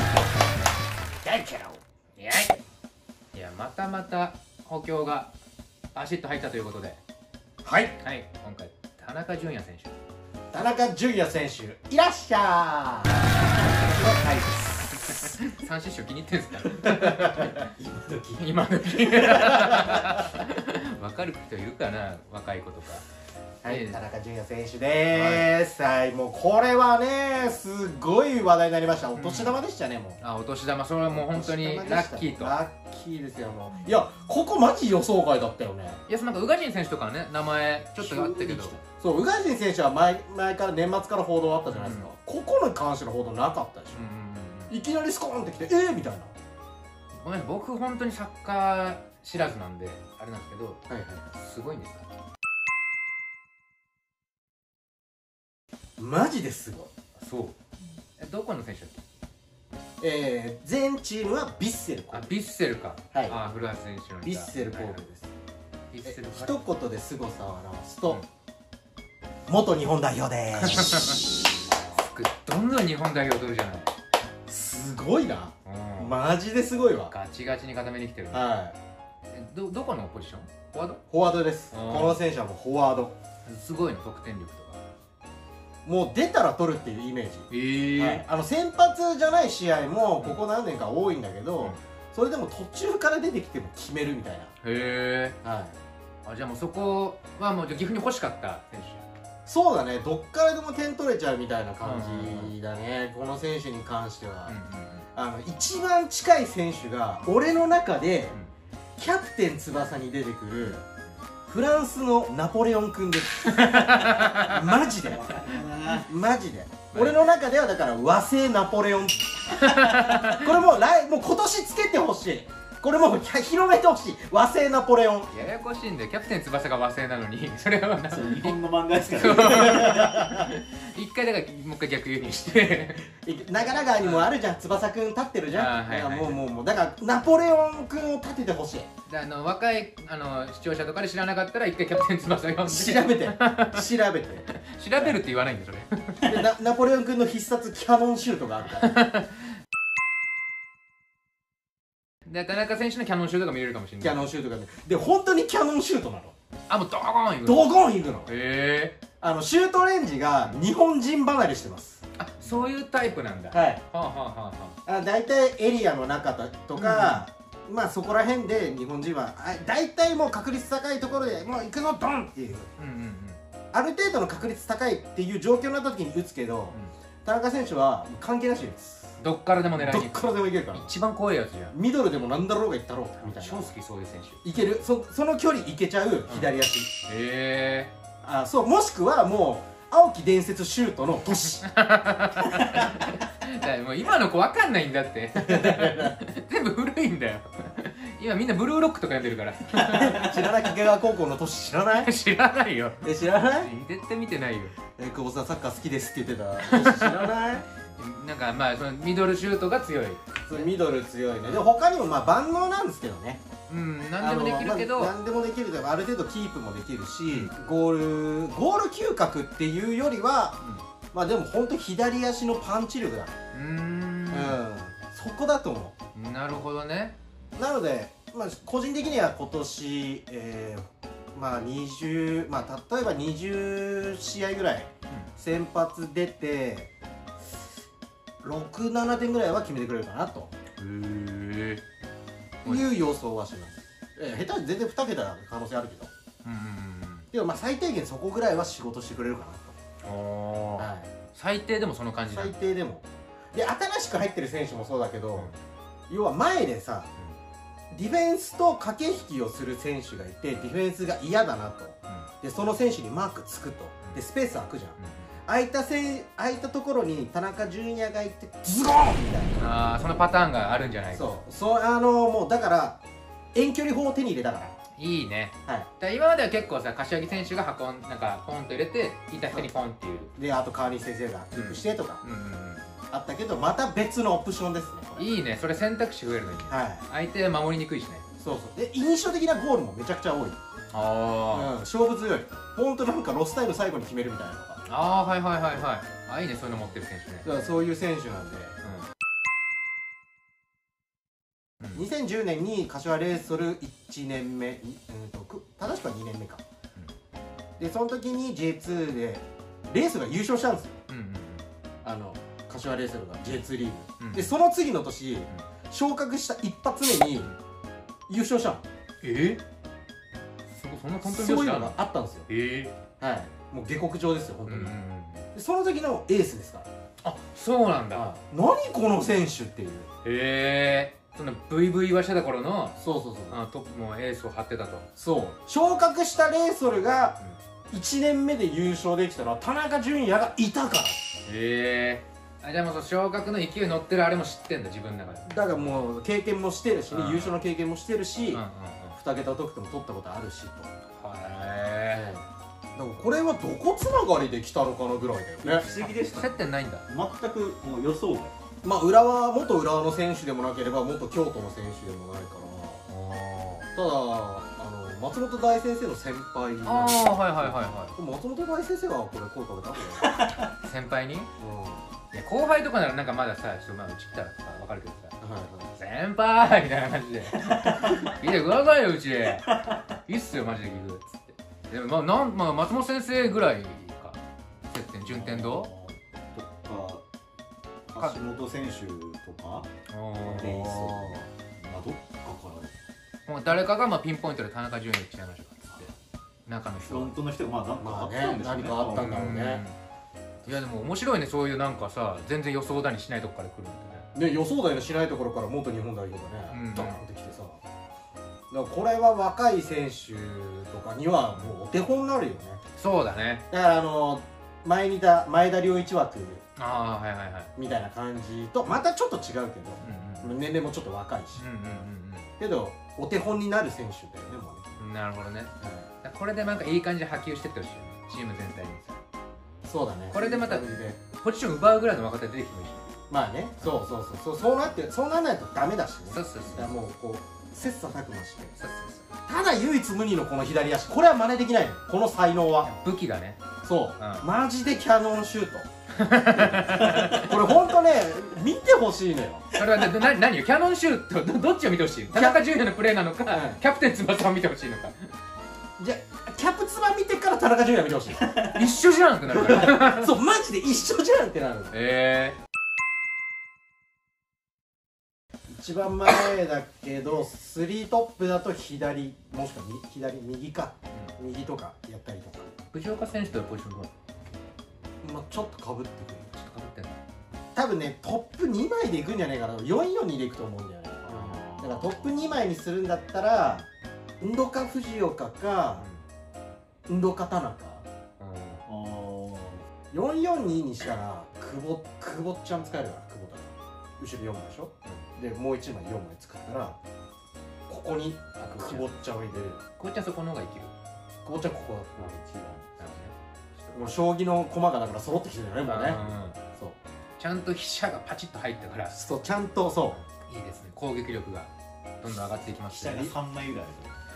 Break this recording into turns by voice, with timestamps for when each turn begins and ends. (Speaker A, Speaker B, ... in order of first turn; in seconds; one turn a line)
Speaker A: 1.2-1.8
Speaker B: 2.2-2.5
Speaker B: 3.3-5.3
Speaker B: 5.9-7.0
Speaker A: 7.7-7.9
Speaker B: 7.9-9.9
Speaker A: 10.5-15.3
Speaker B: 15.1-17.7
Speaker A: 16.7-20.2
Speaker B: 18.4-23.1
Speaker A: 23.6-30.2
Speaker B: 23.6-24.0
Speaker B: 25.1-25.5
Speaker B: 29.2-29.6
Speaker B: 30.2-32.6
Speaker A: 31.1-36.0
Speaker B: 36.1-38.8
Speaker A: 38.0-44.0
Speaker B: 41.7-42.1
Speaker B: 43.9-44.7
Speaker A: 44.7-46.3
Speaker B: 47.1-50.8
Speaker A: 50.9-51.3
Speaker B: 51.3-52.1
Speaker A: 56.0-56.9
Speaker B: 57.2-57.6
Speaker B: 58.2-59.0
Speaker A: 60.0-62.3
Speaker B: 62.1-65.0
Speaker A: 63.1-63.4
Speaker A: 64.2-65.3
Speaker B: 65.9-66.6
Speaker A: 66.0-68.2
Speaker A: 69.5-71.1
Speaker B: 70.6-71.3
Speaker B: 71.9-74.0
Speaker A: 74.5-77.1
Speaker B: 75.7-76.2
Speaker B: 77.1-78.5
Speaker A: 78.3-78.8
Speaker B: 79.3-81.0
Speaker A: 81.1-83.2
Speaker B: 81.7-82.2
Speaker B: 83.5-84.8
Speaker A: 85.8-94.5
Speaker B: 87.5-88.2
Speaker B: 94.6-95.4
Speaker A: 95.4-95.8
Speaker B: 96.2-99.1
Speaker A: 99.5-104.6
Speaker B: 101.8-102.5
Speaker B: 104.5-105.1
Speaker A: 105.2-108.4
Speaker A: 109.0-110.8
Speaker A: 111.5-125.3
Speaker B: 113.5-114.6
Speaker C: 115.3-116.0
Speaker B: 116.9-117.2
Speaker B: 119.5-120.5
Speaker B: 125.3-133.1
Speaker C: 128.0-130.3
Speaker A: 133.1-138.9
Speaker B: 133.9-134.3
Speaker B: 135.5-136.4
Speaker B: 139.1-143.9
Speaker A: 142.6-145.2
Speaker B: 144.5-146.5
Speaker A: 146.2-148.9
Speaker B: 148.8-149.5
Speaker B: 152.3-154.2
Speaker A: 154.0-156.3
Speaker B: 156.7-157.7
Speaker A: 157.4-158.3
Speaker B: 158.3-159.0
Speaker A: 159.2-162.6
Speaker B: 162.2-164.8
Speaker A: 163.5-163.8
Speaker A: 164.8-172.7
Speaker B: 166.8-167.2
Speaker B: 172.8-173.4
Speaker A: 173.7-179.2
Speaker B: 179.2-181.8
Speaker A: 179.7-180.9
Speaker A: 181.7-183.7
Speaker B: 183.2-184.4
Speaker A: 184.4-186.9
Speaker B: 187.0-187.9
Speaker A: 188.2-191.7
Speaker B: 191.6-200.3
Speaker A: 192.6-192.9
Speaker A: 195.4-196.2
Speaker A: 199.8-202.1
Speaker B: 202.0-203.1
Speaker A: 203.0-203.7
Speaker B: 203.6-204.8
Speaker A: 205.0-207.7
Speaker B: 206.6-207.2
Speaker B: 207.9-210.7
Speaker A: 210.5-213.4
Speaker B: 213.7-215.1
Speaker A: 214.2-220.6
Speaker A: 221.1-223.3
Speaker B: 223.5-224.6
Speaker A: 224.3-225.9
Speaker B: 226.1-227.2
Speaker A: 227.6-236.9
Speaker A: 238.4-240.5
Speaker B: 240.8-241.8
Speaker A: 242.6-246.1
Speaker B: 242.7-242.9
Speaker B: 246.4-247.3
Speaker A: 247.3-249.8
Speaker B: 250.0-252.5
Speaker A: 250.8-251.1
Speaker A: 252.3-255.5
Speaker A: 256.1-257.1
Speaker A: 257.9-269.6
Speaker B: 265.0-265.3
Speaker B: 269.6-271.4
Speaker A: 271.1-273.0
Speaker A: 273.5-274.8
Speaker B: 275.0-280.3
Speaker A: 280.4-282.2
Speaker B: 281.5-282.9
Speaker A: 283.1-285.3
Speaker B: 285.2-288.2
Speaker A: 286.7-287.1
Speaker A: 288.4-290.6
Speaker B: 290.9-291.8
Speaker A: 291.5-294.8
Speaker B: 294.9-297.6
Speaker A: 297.4-298.8
Speaker B: 298.8-299.1
Speaker A: 301.9-306.6
Speaker A: 307.8-311.0
Speaker B: 311.1-311.7
Speaker A: 312.0-317.5
Speaker B: 314.2-314.5
Speaker A: 318.3-318.8
Speaker B: 319.2-319.6
Speaker B: 320.7-322.9
Speaker A: 321.2-322.5
Speaker A: 323.2-325.0
Speaker B: 324.7-325.5
Speaker A: 325.5-326.9
Speaker B: 327.2-328.3
Speaker A: 328.1-330.1
Speaker B: 330.2-333.0
Speaker A: 333.0-333.6
Speaker B: 333.5-335.1
Speaker A: 335.2-337.4
Speaker A: 337.9-341.2
Speaker B: 341.4-345.8
Speaker A: 345.5-348.6
Speaker B: 347.1-347.6
Speaker B: 348.5-349.2
Speaker A: 349.2-350.9
Speaker B: 351.1-352.3
Speaker A: 352.1-355.9
Speaker C: 355.6-358.5
Speaker B: 356.0-357.1
Speaker A: 358.8-363.1
Speaker B: 363.1-363.9
Speaker A: 363.9-370.3
Speaker B: 366.8-368.1
Speaker B: 370.8-371.5
Speaker A: 371.6-372.0
Speaker B: 372.3-375.4
Speaker A: 375.4-375.9
Speaker B: 375.9-384.4
Speaker C: 377.6-378.2
Speaker B: 384.9-385.9
Speaker C: 385.2-387.2
Speaker C: 388.1-389.9
Speaker B: 390.1-390.9
Speaker C: 390.5-392.9
Speaker A: 390.6-391.4
Speaker B: 393.5-396.1
Speaker B: 396.7-397.4
Speaker C: 397.0-399.5
Speaker A: 398.0-399.8
Speaker B: 399.1-399.9
Speaker B: 400.7-404.3
Speaker A: 404.3-407.8
Speaker B: 406.7-407.2
Speaker A: 408.7-412.8
Speaker B: 413.0-413.6
Speaker A: 413.7-416.6
Speaker B: 416.8-417.7
Speaker A: 417.8-421.6
Speaker B: 420.0-420.6
Speaker B: 421.6-422.5
Speaker A: 422.6-424.9
Speaker B: 425.0-425.7
Speaker A: 425.8-426.1
Speaker B: 426.2-429.2
Speaker A: 429.9-431.2
Speaker B: 430.3-433.1
Speaker A: 433.3-438.8
Speaker B: 436.3-437.0
Speaker B: 438.8-439.3
Speaker A: 439.5-442.9
Speaker B: 442.8-443.6
Speaker A: 443.8-445.9
Speaker B: 444.2-444.5
Speaker B: 446.1-447.6
Speaker A: 446.5-449.6
Speaker B: 449.7-455.3
Speaker A: 452.3-452.6
Speaker A: 453.5-453.8
Speaker A: 456.0-458.6
Speaker B: 458.6-460.3
Speaker A: 459.5-462.0
Speaker B: 461.9-462.6
Speaker A: 465.7-472.7
Speaker B: 472.9-474.1
Speaker A: 475.2-476.5
Speaker B: 476.5-477.2
Speaker A: 477.8-483.9
Speaker C: 481.3-482.1
Speaker A: 484.4-486.1
Speaker B: 486.0-486.2
Speaker A: 487.1-488.1
Speaker B: 488.4-488.8
Speaker C: 488.9-489.8
Speaker A: 490.1-497.0
Speaker A: 497.9-499.8
Speaker B: 498.6-499.2
Speaker B: 499.9-500.9
Speaker A: 501.4-502.8
Speaker C: 502.2-502.7
Speaker B: 503.0-504.1
Speaker A: 503.9-507.0
Speaker B: 505.9-506.6
Speaker B: 507.4-509.2
Speaker A: 509.1-510.2
Speaker B: 510.1-513.4
Speaker C: 512.9-514.1